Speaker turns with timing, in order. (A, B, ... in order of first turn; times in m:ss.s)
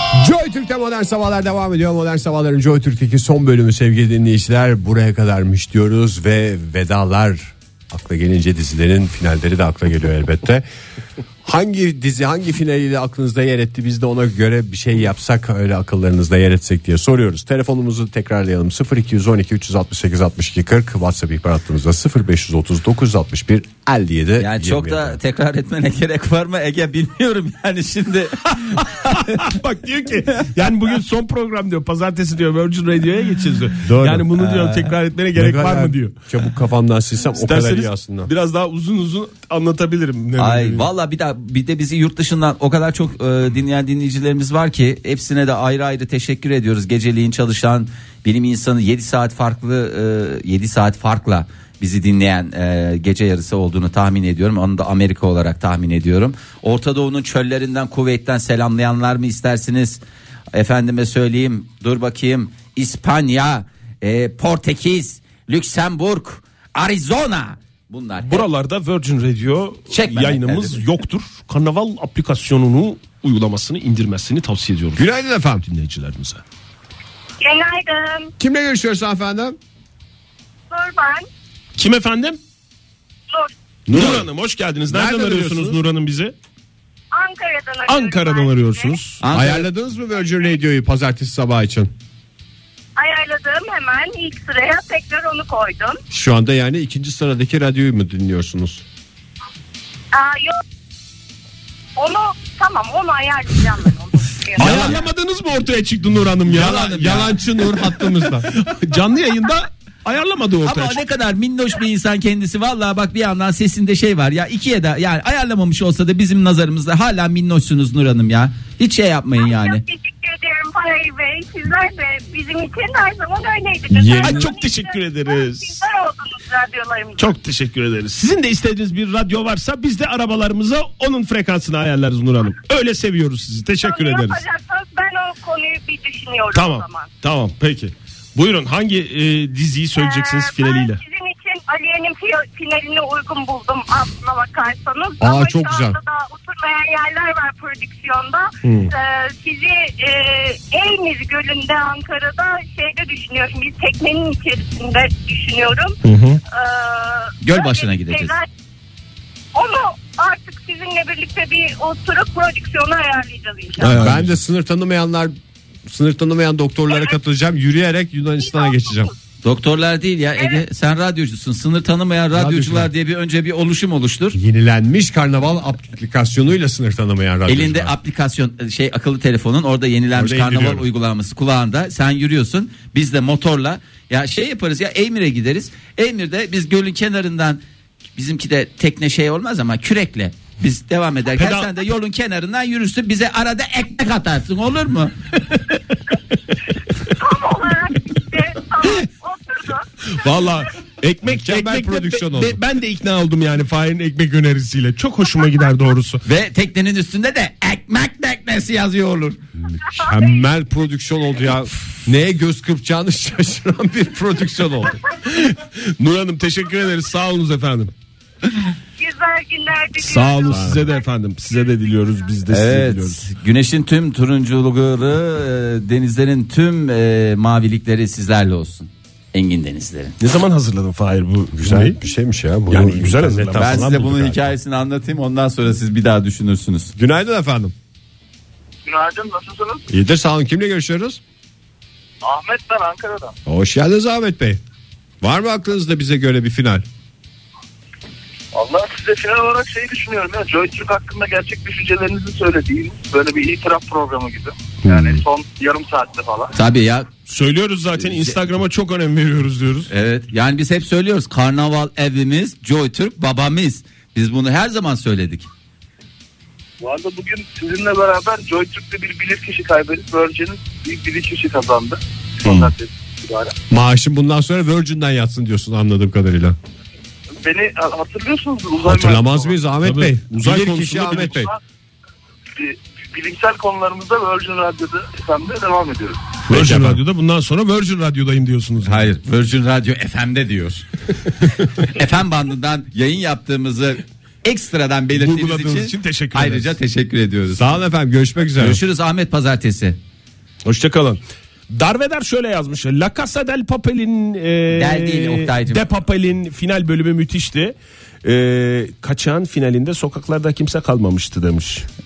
0:00.1-0:10.6 A
0:11.4-0:25.2 A
0:24.4-0:29.5 B
0:29.2-0:36.2 C
0:33.8-0:34.3 A
0:34.4-0:34.9 B
0:35.3-0:38.3 A
0:37.4-0:40.9 C
0:40.4-1:00.0 B
1:00.5-1:08.5 B
1:08.2-1:16.4 C
1:09.9-1:10.8 B
1:15.0-1:15.6 A
1:17.4-1:18.3 D
1:18.4-1:19.6 A
1:20.7-1:21.3 D
1:21.8-1:22.4 C
1:23.9-1:26.3 C
1:23.9-1:24.2 B
1:24.9-1:25.8 A
1:27.1-1:29.0 D
1:27.9-1:29.2 C
1:29.2-1:29.7 B
1:29.3-1:31.9 A
1:33.0-1:36.0 D
1:36.1-1:38.8 A
1:40.1-1:40.6 D
1:42.0-1:45.0 D
1:44.6-1:47.1 C
1:44.6-1:45.0 A
1:46.4-1:48.5 A
1:46.5-1:47.4 B
1:47.8-1:51.0 C
1:50.6-1:59.8 B
1:59.4-2:07.3 D
2:03.9-2:04.5 A
2:04.2-2:05.8 C
2:07.2-2:14.4 C
2:13.8-2:17.1 D
2:16.5-2:21.0 C
2:20.0-2:36.0 D
2:25.2-2:26.0 A
2:28.6-2:28.9 C
2:36.0-2:36.4 C
2:36.5-2:38.5 D
2:37.4-2:38.4 B
2:39.5-2:44.0 D
2:43.8-2:44.4 C
2:43.9-2:45.3 A
2:45.8-2:49.1 A
2:48.4-2:49.1 D
2:49.4-2:54.4 B
2:50.4-2:50.6 D
2:52.3-2:52.9 A
2:54.3-2:57.9 A
2:57.5-3:07.6 B
3:00.1-3:00.8 A
3:08.2-3:15.1 B
3:11.4-3:11.7 C
3:17.1-3:20.7 D
3:20.1-3:26.2 C
3:21.2-3:22.6 A
3:26.2-3:29.4 B
3:29.6-3:35.0 A
3:35.2-3:37.9 C
3:39.0-3:40.8 D
3:40.0-3:43.2 C
3:40.5-3:40.9 A
3:42.5-3:50.2 B
3:50.2-3:52.0 C
3:51.5-3:54.4 A
3:52.7-3:54.3 C
3:53.5-3:56.9 B
3:57.0-3:57.7 A
3:58.8-3:59.9 E
3:59.9-4:01.2 A
4:02.2-4:03.3 E
4:03.4-4:04.6 A
4:05.2-4:06.8 A
4:08.5-4:16.5 E
4:14.8-4:15.2 A
4:16.5-4:17.1 B
4:17.3-4:19.9 C
4:17.9-4:18.4 B
4:19.9-4:25.5 B
4:26.8-4:33.5 E
4:33.7-4:36.6 A
4:37.4-4:39.7 E
4:38.8-4:41.5 A
4:39.8-4:41.4 C
4:41.3-4:41.6 E
4:42.6-4:46.3 E
4:46.5-4:47.0 A
4:46.5-4:49.1 C
4:48.8-4:50.8 B
4:51.8-4:57.8 B
4:55.1-4:56.7 C
4:57.5-4:58.8 A
4:58.6-5:00.0 B
5:00.6-5:11.8 C
5:04.7-5:05.8 B